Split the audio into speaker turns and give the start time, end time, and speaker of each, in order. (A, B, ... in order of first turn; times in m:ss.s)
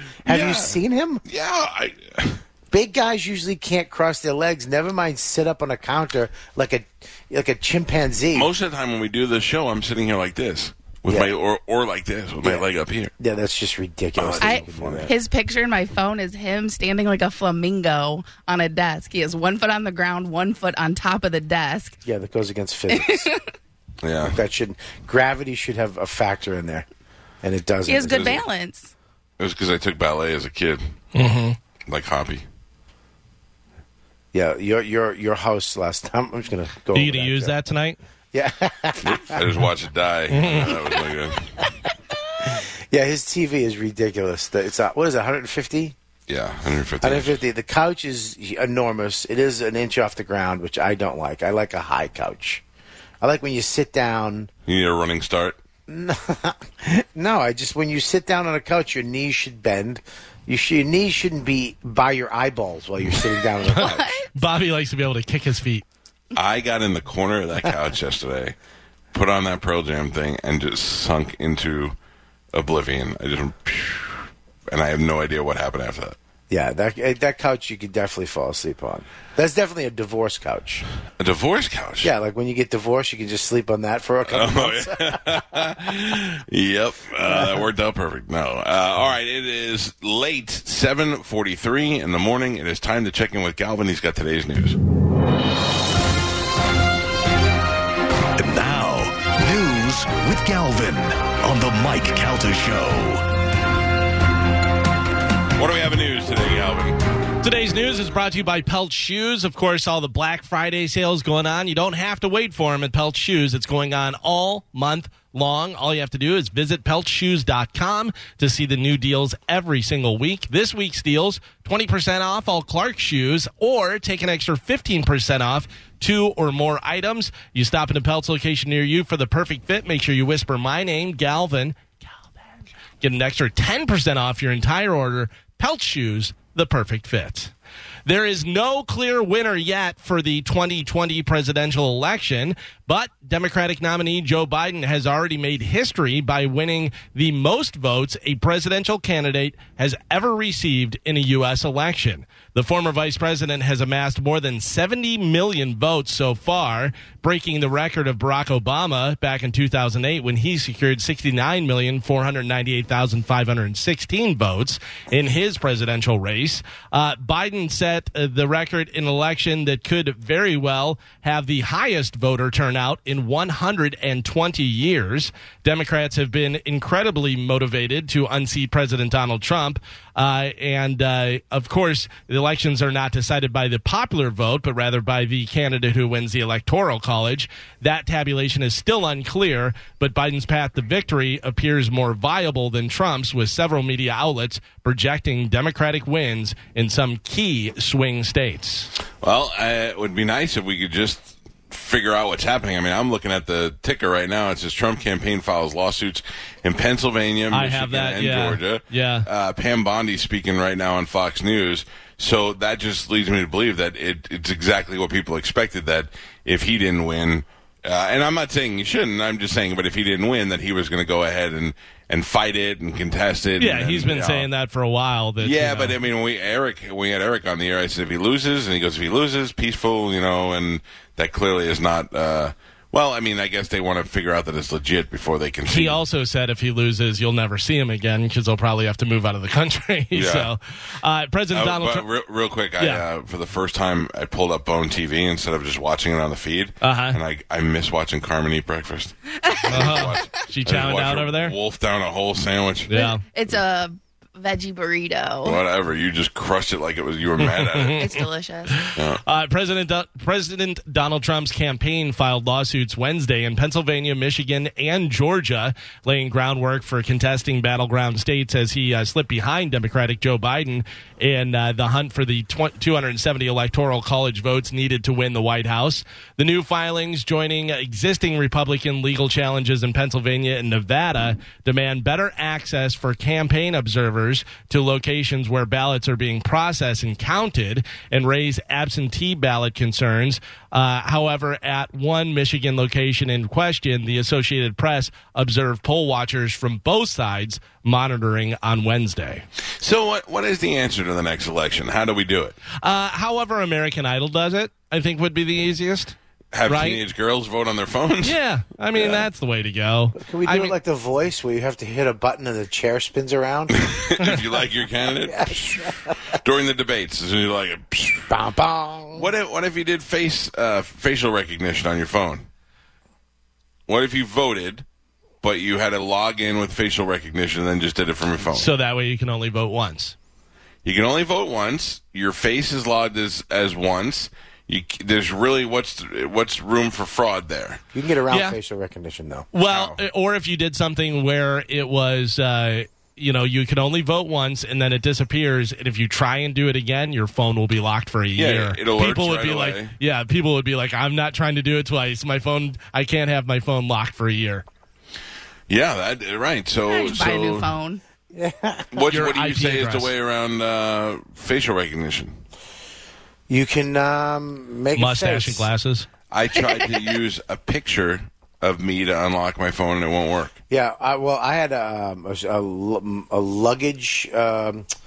0:00.2-0:01.2 A
0:00.3-0:02.4 B
0:02.7-0:08.5 A
0:08.3-0:13.1 B
0:11.1-0:11.3 A
0:13.2-0:15.1 A
0:14.2-0:15.1 B
0:14.4-0:22.0 C
0:22.0-0:23.3 A
0:22.9-0:23.4 C
0:24.0-0:24.4 B
0:24.2-0:26.9 A
0:27.4-0:28.4 A
0:27.9-0:28.9 C
0:28.1-0:28.4 B
0:29.4-0:30.8 B
0:31.2-0:31.6 D
0:31.9-0:32.4 B
0:34.3-0:37.6 A
0:37.0-0:38.0 D
0:38.3-0:39.4 A
0:39.0-0:41.5 B
0:40.3-0:40.7 D
0:42.4-0:46.0 A
0:46.3-0:47.4 B
0:47.0-0:52.6 A
0:53.2-0:54.5 A
0:54.7-0:55.6 B
0:55.9-1:04.1 A
1:03.6-1:04.3 C
1:04.4-1:05.8 D
1:06.4-1:08.6 B
1:09.1-1:12.0 B
1:12.5-1:16.2 B
1:16.5-1:20.9 A
1:21.2-1:22.1 B
1:22.0-1:25.6 A
1:24.3-1:34.8 B
1:27.2-1:27.6 A
1:38.4-1:43.2 E
1:45.6-1:47.0 B
1:47.4-2:11.8 D
2:13.0-2:17.5 D
2:18.1-3:18.9 D
3:19.2-3:44.5 B
3:27.5-3:29.3 D
3:43.6-3:46.0 D
3:45.4-3:56.0 B
3:55.7-4:02.1 D
4:00.1-4:00.5 B
4:01.5-4:09.2 B
4:06.8-4:07.2 D
4:09.4-4:10.0 C
4:09.7-4:11.5 D
4:09.7-4:12.9 B
4:12.9-4:13.2 D
4:12.9-4:15.6 C
4:15.4-4:18.1 B
4:17.4-4:59.4 D
4:18.0-4:18.8 C
4:59.8-5:02.6 B
5:02.8-5:06.2 D
5:06.5-5:08.4 B
5:06.7-5:07.0 D
5:08.2-5:10.8 D
5:09.0-5:09.3 B
5:10.2-5:13.8 A
5:13.7-5:18.4 B
5:15.3-5:16.1 A
5:18.3-5:19.3 A
5:19.2-5:22.5 B
5:23.9-5:24.8 B
5:25.4-5:28.7 B
5:28.5-5:30.2 D
5:30.8-5:37.8 B
5:37.9-5:39.5 A
5:38.3-5:38.6 D
5:39.5-5:54.6 D
5:39.7-5:40.0 B
5:48.4-5:49.9 B
5:55.7-5:57.7 B
5:56.9-5:58.0 C
5:58.3-5:58.9 A
5:58.9-6:02.4 B
5:59.1-6:00.1 D
6:03.5-6:05.7 A
6:05.0-6:06.1 D
6:06.3-6:10.6 B
6:10.7-6:14.9 A